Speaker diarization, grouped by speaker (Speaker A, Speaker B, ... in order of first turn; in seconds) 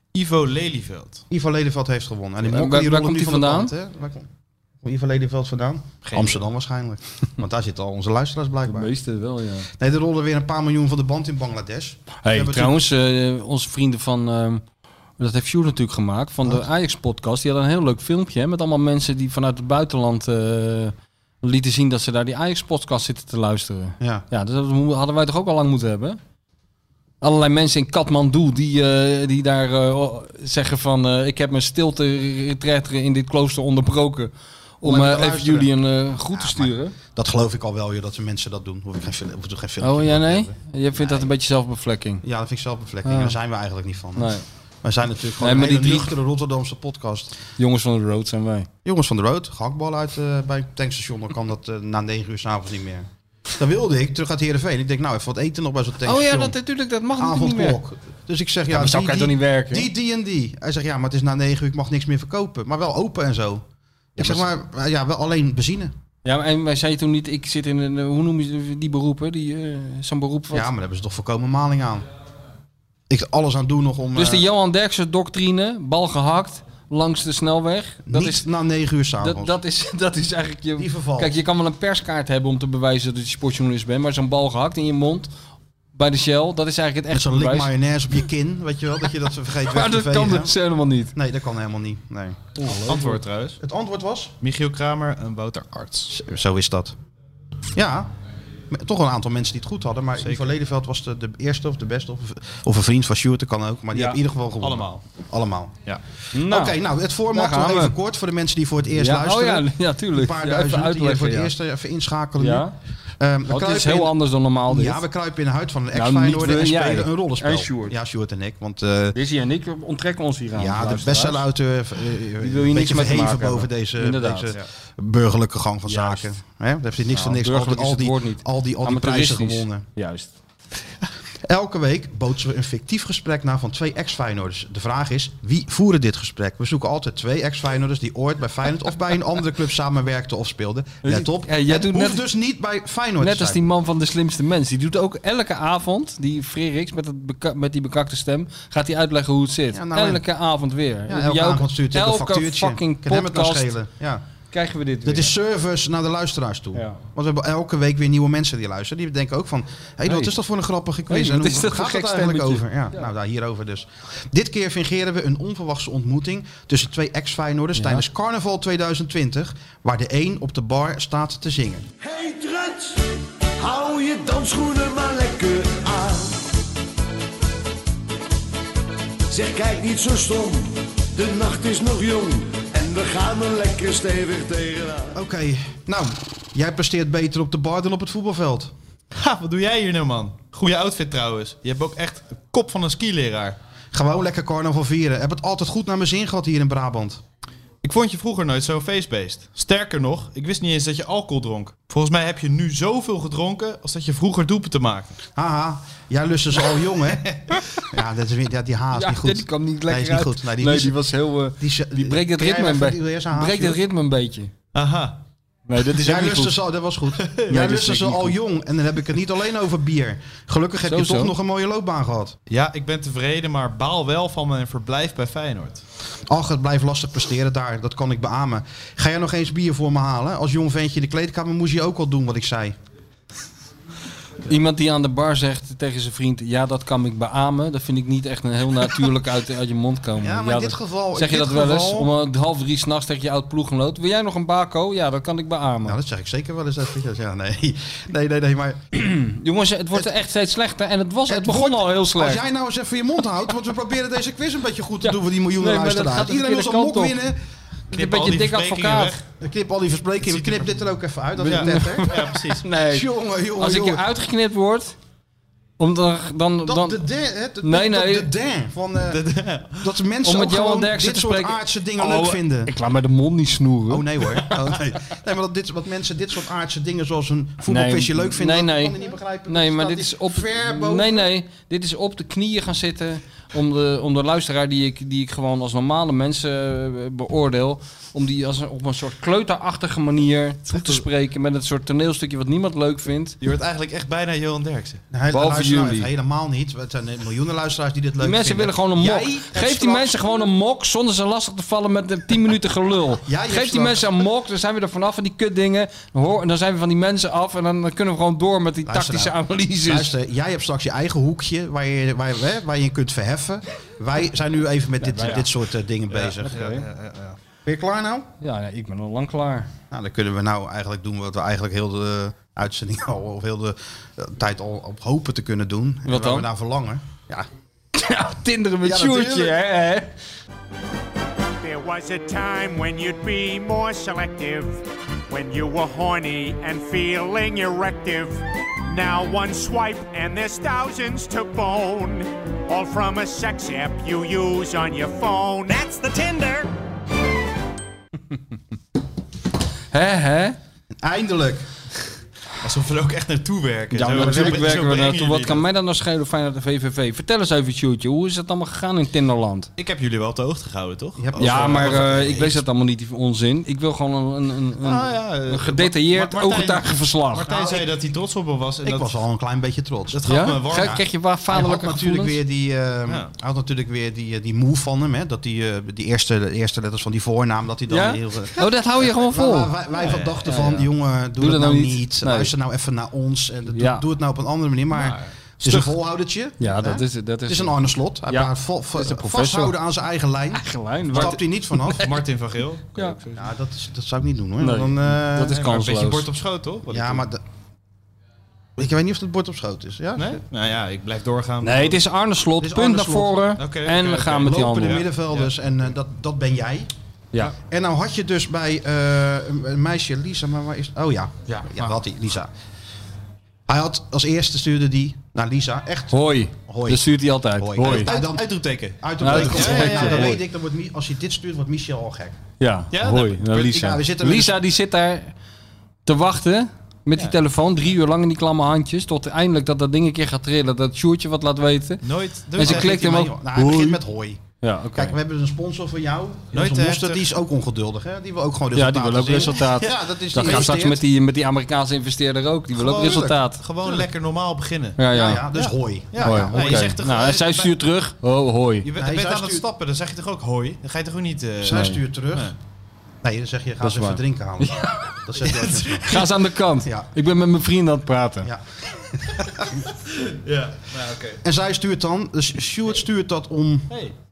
Speaker A: 0.1-1.2, 6.0-6.4, 92.8-93.6, 94.4-96.1, 100.2-100.5, 104.6-105.0, 189.1-193.6, 197.8-205.2, 214.7-215.2, 217.2-217.5, 222.5-225.8, 257.9-259.3, 260.2-260.7, 261.4-262.7, 269.0-269.9, 290.7-291.0, 293.4-295.0, 316.1-317.4, 352.6-355.6, 359.8-362.5, 364.8-369.1, 370.1-371.0, 379.9-380.4, 384.9-385.9, 391.9-393.5, 395.5-397.2, 400.2-402.0, 403.6-405.5, 411.5-411.9, 417.8-420.3, 422.9-423.7, 432.0-433.0, 436.5-437.3, 442.8-445.0, 445.5-447.7, 448.8-452.5, 455.4-456.2, 460.1-461.4, 463.9-464.1
Speaker B: 1.3-4.3, 4.8-8.9, 9.8-12.9, 24.0-24.2, 34.8-41.3, 42.2-47.4, 48.8-56.6, 57.1-63.6, 64.2-65.9, 70.5-72.1, 73.1-74.5, 78.1-79.6, 80.8-81.3, 87.1-90.5, 91.1-92.5, 93.6-94.3, 96.1-97.0, 97.7-98.1, 98.7-105.8, 106.4-112.7, 113.2-119.2, 120.5-129.8, 131.4-143.6, 149.7-150.2, 151.1-154.2, 155.0-171.8, 185.1-188.7, 193.9-197.2, 205.3-211.0, 211.6-213.8, 215.9-222.4, 226.3-232.7, 240.2-242.1, 245.8-248.8, 251.3-257.4, 259.4-264.0, 266.6-272.7, 273.9-281.3, 295.1-300.5, 303.2-304.2, 308.9-316.6, 317.6-318.3, 319.9-327.5, 328.8-329.5, 351.0-351.6, 353.9-354.9, 361.2-362.6, 367.4-367.9, 368.8-392.1, 393.3-395.6, 396.9-397.4, 398.8-400.4, 402.6-403.5, 404.3-406.9, 407.4-412.5, 413.7-422.4, 423.4-424.6, 432.6-434.4, 434.9-441.0, 442.9-444.1, 445.1-447.0, 448.9-449.6, 451.6-452.5, 453.2-456.3, 456.8-457.1, 458.4-459.8, 461.4-463.9
Speaker C: 2.4-3.7, 8.7-9.7, 12.2-14.6, 15.2-26.2, 27.2-36.9, 39.8-42.2, 43.0-43.4, 44.1-44.4, 45.4-46.1, 47.6-48.7, 56.0-57.8, 58.7-59.9, 64.2-64.4, 66.2-70.7, 74.1-78.4, 79.2-85.3, 85.9-87.7, 89.7-91.1, 92.6-93.2, 103.9-104.2, 106.3-106.8, 107.3-107.9, 108.9-111.5, 112.4-112.7, 113.5-115.0, 115.9-117.9, 119.1-121.5, 122.4-124.5, 125.9-126.3, 127.1-130.3, 141.0-142.2, 143.2-153.7, 154.5-155.3, 156.7-157.0, 160.1-160.3, 161.1-162.7, 167.8-168.0, 208.9-214.5, 215.7-216.6, 217.5-218.4, 220.8-221.3, 234.5-246.0, 248.9-252.4, 255.0-257.2, 257.9-259.2, 261.4-264.9, 265.8-267.0, 267.6-268.3, 270.2-274.6, 277.7-278.9, 279.5-293.4, 295.3-296.1, 298.2-310.1, 315.0-315.5, 316.3-316.9, 318.4-319.7, 326.1-326.5, 327.9-330.1, 349.9-350.6, 354.0-359.7, 361.4-367.5, 370.3-372.4, 377.9-379.7, 380.4-382.5, 383.7-384.0, 386.6-389.8, 390.5-392.2, 394.6-396.3, 401.6-405.0, 416.1-418.1, 419.2-420.4, 422.6-425.3, 426.1-434.0, 434.6-435.1, 438.7-443.6, 445.0-445.5, 446.2-448.9, 451.7-452.0, 453.8-455.1, 456.0-458.5
Speaker D: 172.0-173.0, 173.6-176.4, 179.3-185.1
Speaker E: 331.6-346.7